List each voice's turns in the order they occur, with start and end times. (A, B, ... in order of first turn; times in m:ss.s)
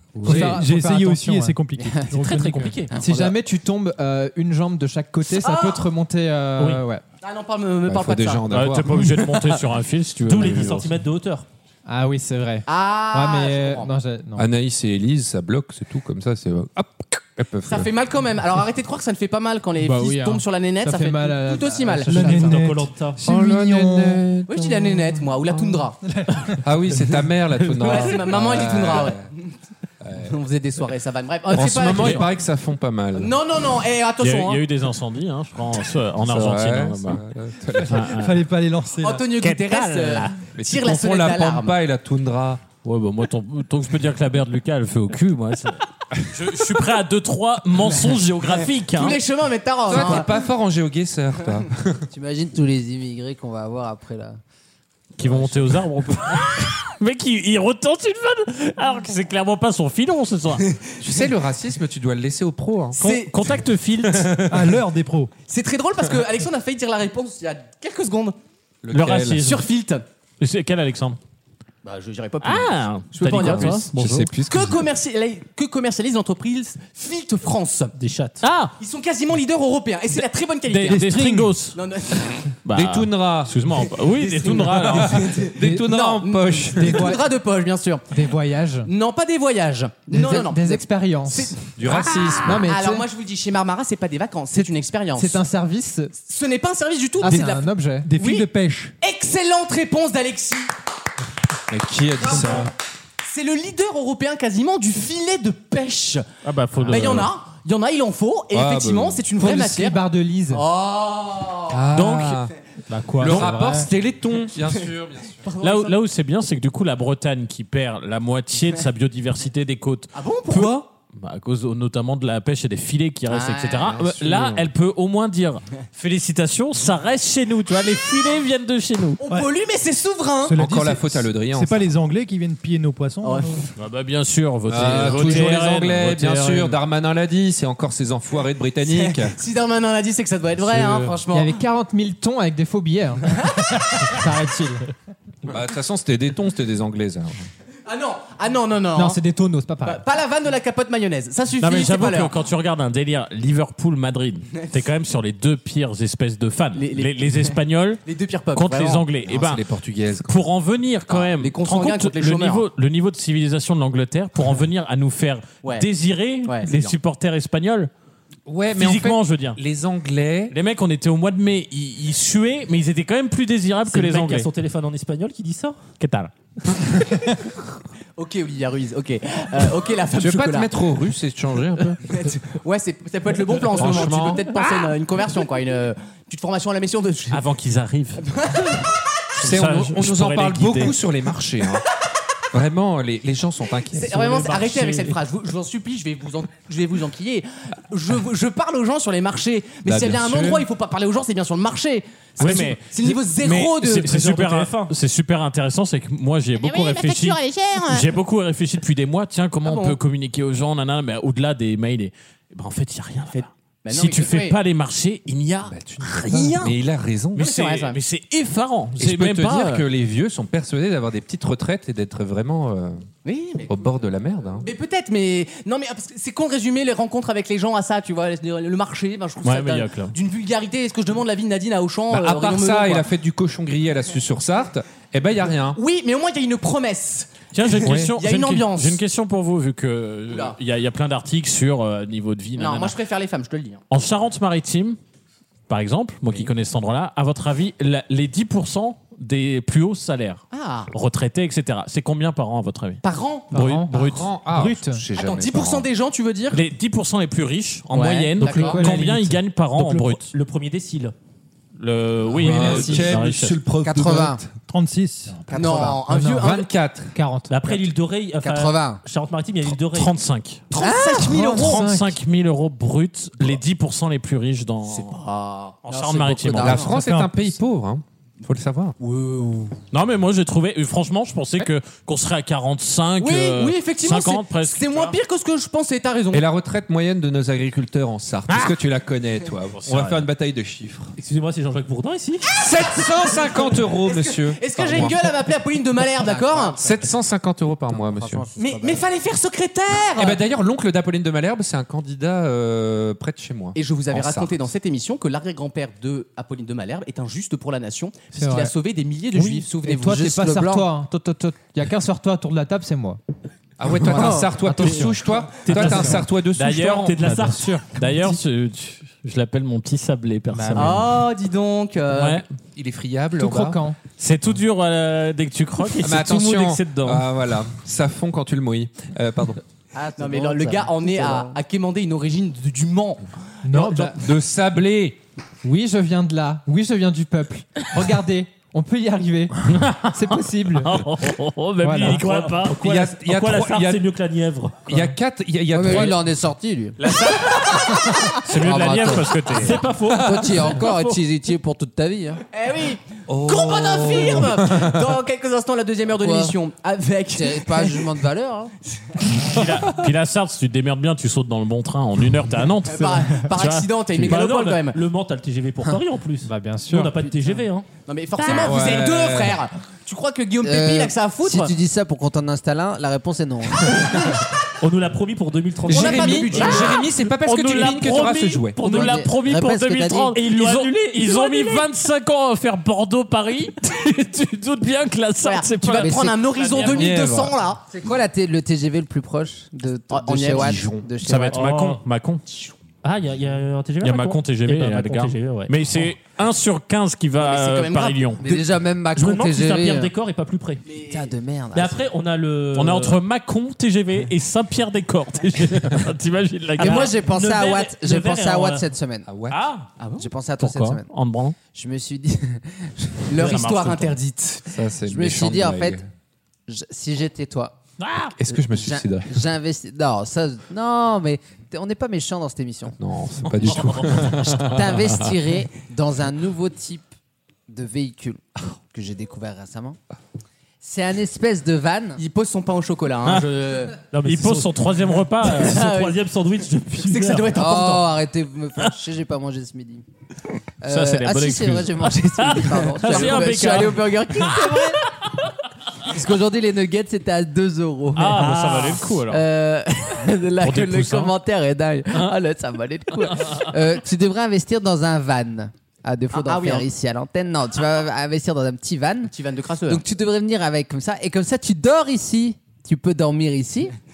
0:00.2-0:01.6 A
0:00.2-0:00.6 B
0:00.2-0:02.8 C
0:01.8-0:02.2 D
0:02.1-0:03.0 E
0:02.9-0:03.4 D
0:03.0-0:07.0 A
0:05.3-0:05.9 F
0:07.2-0:08.5 F
0:07.9-0:09.1 B
0:08.5-0:11.0 G
0:10.3-0:11.5 E
0:11.9-0:14.5 A
0:12.7-0:13.9 F
0:14.4-0:17.9 B
0:17.7-0:22.4 F
0:19.8-0:22.6 A
0:22.1-0:24.3 C
0:22.2-0:23.2 E
0:23.2-0:25.2 B
0:24.5-0:26.0 F
0:26.0-0:26.6 C
0:26.6-0:29.2 B
0:27.8-0:29.5 F
0:30.0-0:30.3 B
0:30.2-0:32.3 F
0:31.5-0:33.4 B
0:31.9-0:32.2 G
0:33.1-0:34.6 F
0:34.2-0:37.2 G
0:36.2-0:38.2 B
0:37.9-0:38.4 G
0:38.0-0:39.3 C
0:39.0-0:41.8 F
0:39.4-0:40.3 G
0:40.6-0:42.6 B
0:42.8-0:49.2 G
0:48.9-0:50.3 F
0:49.9-0:52.1 B
0:49.9-0:50.2 G
0:52.1-0:54.4 D
0:55.2-1:00.7 G
0:55.2-0:55.7 B
1:01.0-1:03.0 B
1:03.0-1:03.3 F
1:03.0-1:04.6 G
1:04.5-1:05.3 C
1:05.4-1:08.4 F
1:08.8-1:09.5 B
1:08.9-1:09.7 G
1:09.4-1:10.0 F
1:10.4-1:11.2 G
1:11.8-1:13.9 F
1:12.4-1:13.9 G
1:13.4-1:14.8 B
1:14.4-1:17.9 F
1:18.0-1:18.4 E
1:18.4-1:18.8 G
1:18.8-1:22.5 F
1:20.7-1:21.8 G
1:21.0-1:21.4 A
1:22.6-1:25.4 G
1:22.7-1:23.5 B
1:24.2-1:28.1 F
1:24.9-1:27.2 B
1:26.7-1:27.2 A
1:28.1-1:28.9 A
1:28.8-1:35.4 F
1:30.1-1:31.6 A
1:31.8-1:32.6 B
1:32.4-1:33.0 A
1:34.5-1:36.1 A
1:36.2-1:38.5 F
1:37.2-1:38.1 A
1:38.0-1:39.0 C
1:39.0-1:40.7 F
1:41.7-1:42.7 B
1:42.3-1:42.7 F
1:43.2-1:46.3 F
1:46.4-1:47.3 G
1:46.8-1:51.8 F
1:48.5-1:49.2 B
1:49.4-1:50.6 A
1:51.7-1:52.5 B
1:51.9-1:52.4 G
1:52.9-1:53.9 A
1:53.2-1:55.4 B
1:55.4-1:56.0 F
1:55.6-2:09.2 G
2:00.1-2:00.8 F
2:03.3-2:04.0 F
2:03.8-2:04.7 B
2:09.2-2:10.6 F
2:10.4-2:13.7 C
2:10.6-2:11.8 B
2:13.2-2:13.7 F
2:13.8-2:16.8 G
2:14.7-2:19.4 B
2:18.9-2:21.5 F
2:20.6-2:21.2 B
2:21.3-2:24.8 A
2:25.5-2:27.4 B
2:27.9-2:29.2 F
2:29.0-2:30.0 A
2:29.8-2:32.4 F
2:31.6-2:38.0 G
2:36.8-2:37.6 F
2:38.1-2:39.0 F
2:38.5-2:39.6 G
2:39.3-2:40.4 B
2:40.2-2:47.9 G
2:41.3-2:42.6 F
2:46.4-2:47.0 F
2:48.5-2:50.6 B
2:48.8-2:49.6 G
2:50.5-2:54.5 G
2:53.9-2:55.8 E
2:56.0-2:56.3 G
2:58.2-3:00.7 F
3:00.1-3:02.2 B
3:02.1-3:07.4 F
3:03.8-3:04.5 B
3:07.3-3:08.2 G
3:08.2-3:08.8 F
3:09.4-3:11.0 G
3:09.4-3:11.8 B
3:12.5-3:14.0 B
3:13.9-3:24.1 F
3:14.0-3:15.2 E
3:19.8-3:20.6 B
3:22.4-3:36.8 G
3:24.0-3:24.9 E
3:26.6-3:28.1 F
3:29.6-3:30.0 F
3:33.3-3:34.6 F
3:35.7-3:37.5 B
3:37.4-3:38.0 F
3:37.4-3:39.8 G
3:39.0-3:43.1 B
3:43.2-3:43.8 F
3:43.7-3:44.7 B
3:44.6-3:53.1 F
3:49.4-3:50.1 G
3:52.1-3:55.8 B
3:55.7-3:59.0 F
3:57.5-4:02.9 G
3:57.9-3:58.1 A
4:00.3-4:00.6 F
4:02.6-4:03.8 F
4:03.9-4:05.0 G
4:05.7-4:14.3 G
4:10.5-4:10.9 F
4:13.0-4:13.5 F
4:13.5-4:15.0 A
4:13.9-4:15.9 B
4:15.2-4:16.6 F
4:16.5-4:20.3 G
4:17.9-4:18.9 F
4:18.4-4:19.4 A
4:19.8-4:21.2 E
4:21.8-4:23.6 G
4:22.3-4:23.2 A
4:22.4-4:24.5 B
4:23.8-4:24.4 D
4:24.7-4:26.5 C
4:25.5-4:26.0 D
4:25.5-4:26.7 F
4:26.2-4:27.1 B
4:27.1-4:27.6 A
4:27.5-4:30.1 E
4:28.4-4:29.0 D
4:29.9-4:30.6 G
4:30.7-4:31.9 F
4:30.8-4:31.3 D
4:31.2-4:32.2 A
4:31.4-4:35.2 G
4:34.8-4:35.8 F
4:35.9-4:36.9 G
4:35.9-4:37.0 D
4:36.6-4:39.0 B
4:37.0-4:37.5 C
4:39.0-4:39.8 F
4:39.9-4:45.2 G
4:43.2-4:46.4 F
4:46.3-4:51.1 B
4:48.5-4:48.8 G
4:49.7-4:50.2 G
4:51.2-4:52.5 E
4:52.5-4:56.8 F
4:52.6-4:55.3 B
4:56.0-4:57.1 D
4:56.8-4:58.4 B
4:57.9-4:59.1 D
4:58.6-5:00.4 F
5:00.2-5:04.6 B
5:03.8-5:10.4 F
5:08.3-5:08.7 A
5:09.3-5:13.2 A
5:09.8-5:10.9 D
5:13.8-5:17.2 B
5:14.0-5:16.2 A
5:14.1-5:14.5 F
5:15.6-5:16.3 E
5:16.6-5:17.2 G
5:16.9-5:17.8 E
5:17.2-5:18.3 A
5:17.9-5:21.1 G
5:20.5-5:21.0 A
5:20.8-5:22.4 F
5:22.1-5:22.4 G
5:22.8-5:23.8 B
5:23.4-5:24.0 A
5:24.2-5:27.3 G
5:26.0-5:29.6 B
5:30.0-5:31.6 D
5:30.2-5:33.2 F
5:33.6-5:34.2 A
5:33.7-5:35.2 B
5:35.6-5:40.9 A
5:39.7-5:42.8 G
5:41.8-5:42.2 A
5:42.0-5:45.0 E
5:42.8-5:44.1 B
5:44.9-5:46.2 B
5:45.7-5:52.4 D
5:47.0-5:49.8 G
5:49.5-5:50.3 E
5:50.2-5:50.6 B
5:52.5-5:58.1 F
5:53.3-5:55.2 B
5:56.2-5:56.6 D
5:57.3-5:58.7 D
5:58.9-5:59.6 F
5:59.4-6:04.7 G
6:02.9-6:05.0 F
6:04.2-6:07.9 E
6:06.4-6:07.5 A
6:08.0-6:11.7 F
6:08.6-6:09.6 B
6:10.6-6:14.4 D
6:14.8-6:16.9 E
6:15.9-6:18.8 B
6:15.9-6:17.0 F
6:17.5-6:27.1 G
6:17.5-6:19.7 E
6:18.8-6:20.4 D
6:20.3-6:21.9 E
6:25.4-6:27.8 F
6:26.0-6:26.3 D
6:26.8-6:27.6 B
6:27.9-6:31.7 D
6:30.1-6:30.9 F
6:30.5-6:31.1 B
6:31.2-6:32.4 G
6:31.5-6:32.0 E
6:33.0-6:35.8 E
6:34.0-6:38.4 G
6:37.4-6:38.8 F
6:38.4-6:40.1 D
6:39.1-6:40.8 E
6:40.8-6:41.3 F
6:41.1-6:42.1 D
6:41.7-6:43.2 E
6:42.7-6:47.2 G
6:46.8-6:49.3 D
6:46.8-6:48.9 E
6:49.3-6:49.6 B
6:49.5-6:49.9 G
6:50.0-6:50.3 F
6:50.2-6:51.1 D
6:50.6-6:51.6 G
6:51.7-6:53.6 D
6:53.3-6:54.6 F
6:53.4-6:54.2 G
6:54.7-6:56.1 B
6:55.0-6:56.0 D
6:56.7-6:57.8 D
6:58.0-6:58.4 G
6:58.4-6:59.4 B
6:58.5-7:03.0 D
7:03.0-7:05.1 B
7:03.7-7:07.1 D
7:07.7-7:10.0 D
7:10.8-7:12.2 D
7:12.2-7:14.0 F
7:14.1-7:14.8 E
7:14.2-7:15.9 G
7:15.4-7:17.6 E
7:15.7-7:16.2 F
7:17.0-7:18.1 F
7:17.5-7:20.0 D
7:20.8-7:25.1 D
7:20.9-7:24.9 G
7:23.0-7:23.9 F
7:26.0-7:39.4 D
7:28.2-7:29.4 G
7:28.3-7:29.1 E
7:30.6-7:31.3 G
7:36.3-7:36.9 F
7:39.3-7:40.0 F
7:39.9-7:44.0 D